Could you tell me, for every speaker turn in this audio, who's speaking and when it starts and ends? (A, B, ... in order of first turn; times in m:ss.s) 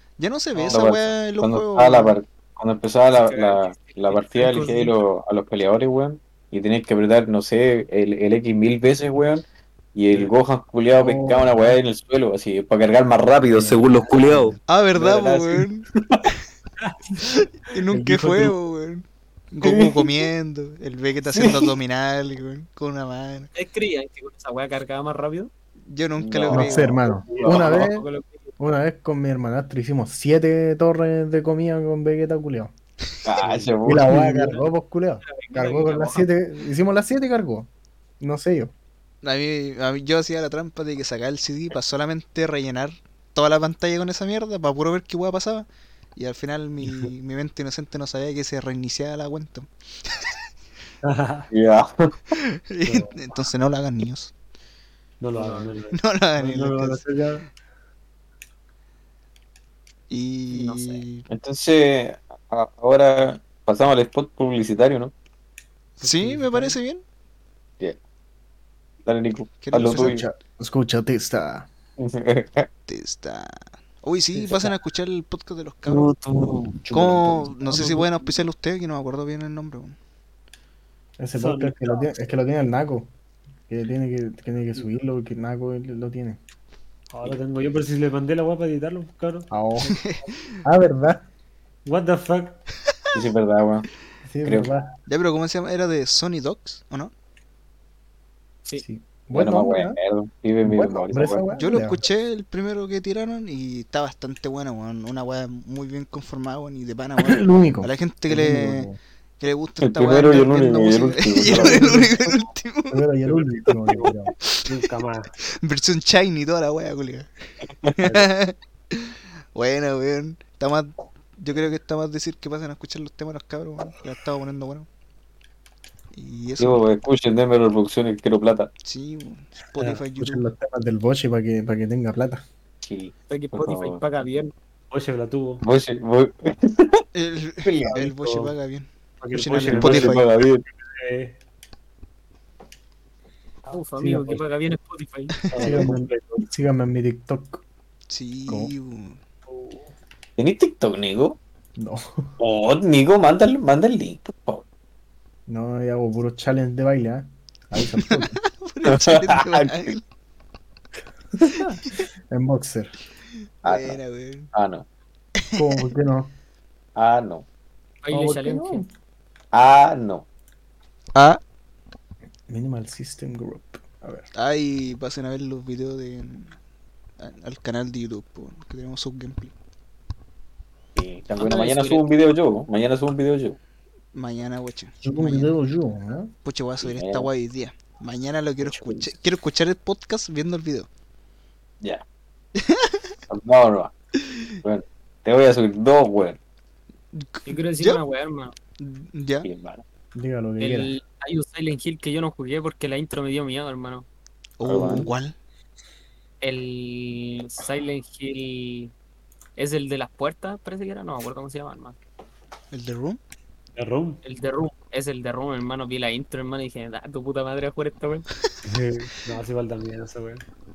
0:00.2-0:02.2 A
0:00.5-0:16.3 B
0:03.1-0:04.9 C
0:11.0-0:11.8 D
0:13.4-0:14.6 D
0:14.7-0:15.8 A
0:16.8-0:18.5 E
0:17.6-0:23.5 A
0:19.6-0:20.1 B
0:21.2-0:21.8 B
0:23.5-0:25.5 C
0:25.8-0:27.0 A
0:26.2-0:27.9 B
0:26.5-0:32.7 D
0:27.1-0:27.6 E
0:27.4-0:28.5 C
0:33.2-0:34.4 B
0:33.8-0:38.7 D
0:35.2-0:36.3 C
0:39.2-0:50.4 A
0:46.8-0:47.1 E
0:51.0-0:51.5 E
0:51.5-0:52.1 B
0:52.3-0:54.3 A
0:52.8-0:53.2 E
0:55.2-0:57.5 E
0:55.4-0:55.7 C
0:55.9-0:57.0 A
1:00.1-1:01.2 A
1:00.5-1:01.0 C
1:01.3-1:05.1 B
1:06.0-1:07.0 A
1:06.0-1:06.8 E
1:09.0-1:10.2 B
1:09.6-1:10.2 A
1:09.8-1:11.7 D
1:12.0-1:12.7 B
1:12.9-1:16.1 A
1:14.3-1:14.7 E
1:15.9-1:16.8 E
1:16.9-1:17.4 B
1:16.9-1:20.0 A
1:17.7-1:18.2 E
1:21.2-1:23.1 D
1:21.4-1:22.1 E
1:23.7-1:26.4 D
1:27.1-1:29.5 E
1:29.5-1:30.0 D
1:29.8-1:30.6 A
1:30.6-1:31.2 D
1:31.8-1:32.6 E
1:33.1-1:33.9 B
1:34.2-1:34.9 D
1:34.4-1:34.7 B
1:35.1-1:37.1 A
1:38.8-1:40.0 D
1:39.3-1:41.5 B
1:40.6-1:42.0 D
1:41.6-1:53.0 A
1:47.2-1:49.0 D
1:49.8-1:52.3 B
1:51.4-1:52.1 D
1:52.9-1:54.3 D
1:53.2-1:55.3 E
1:54.5-1:54.7 A
1:55.4-2:04.9 A
1:58.0-1:58.3 E
2:06.1-2:06.8 A
2:06.6-2:08.7 B
2:08.8-2:10.5 A
2:10.2-2:12.4 D
2:12.8-2:14.0 B
2:13.3-2:14.5 C
2:14.9-2:15.6 E
2:15.6-2:17.0 B
2:17.1-2:20.2 A
2:17.6-2:18.0 B
2:17.9-2:18.5 E
2:19.2-2:21.4 E
2:19.7-2:20.6 B
2:23.7-2:25.4 C
2:24.0-2:24.4 E
2:25.5-2:26.4 E
2:25.5-2:25.8 A
2:25.6-2:27.6 D
2:28.1-2:29.2 A
2:28.5-2:28.7 D
2:29.4-2:29.9 E
2:30.4-2:31.4 B
2:31.8-2:32.3 D
2:32.4-2:34.6 B
2:35.5-2:38.4 D
2:37.8-2:40.0 A
2:38.8-2:39.9 B
2:41.3-2:42.9 D
2:41.6-2:42.0 A
2:43.6-2:44.0 B
2:43.6-2:44.5 A
2:44.5-2:44.8 B
2:45.4-2:45.8 A
2:45.5-2:46.3 D
2:47.0-2:47.4 B
2:48.0-2:48.8 C
2:48.1-2:48.9 D
2:49.5-2:50.2 B
2:51.1-2:51.4 A
2:52.5-2:54.3 D
2:54.3-2:56.6 A
2:57.2-2:59.5 A
3:00.9-3:03.6 B
3:01.4-3:02.0 C
3:04.1-3:05.5 A
3:05.0-3:06.3 D
3:06.4-3:10.9 A
3:06.8-3:07.3 B
3:08.6-3:09.1 B
3:12.6-3:13.0 A
3:13.3-3:13.9 B
3:14.6-3:16.4 B
3:17.1-3:18.0 A
3:17.4-3:18.6 C
3:18.8-3:19.5 A
3:19.4-3:19.8 B
3:20.1-3:20.9 D
3:20.6-3:24.1 C
3:24.6-3:25.3 A
3:24.6-3:25.1 B
3:26.4-3:28.9 C
3:29.6-3:32.0 C
3:32.7-3:33.2 A
3:33.8-3:34.2 E
3:34.2-3:38.2 C
3:38.6-3:40.4 E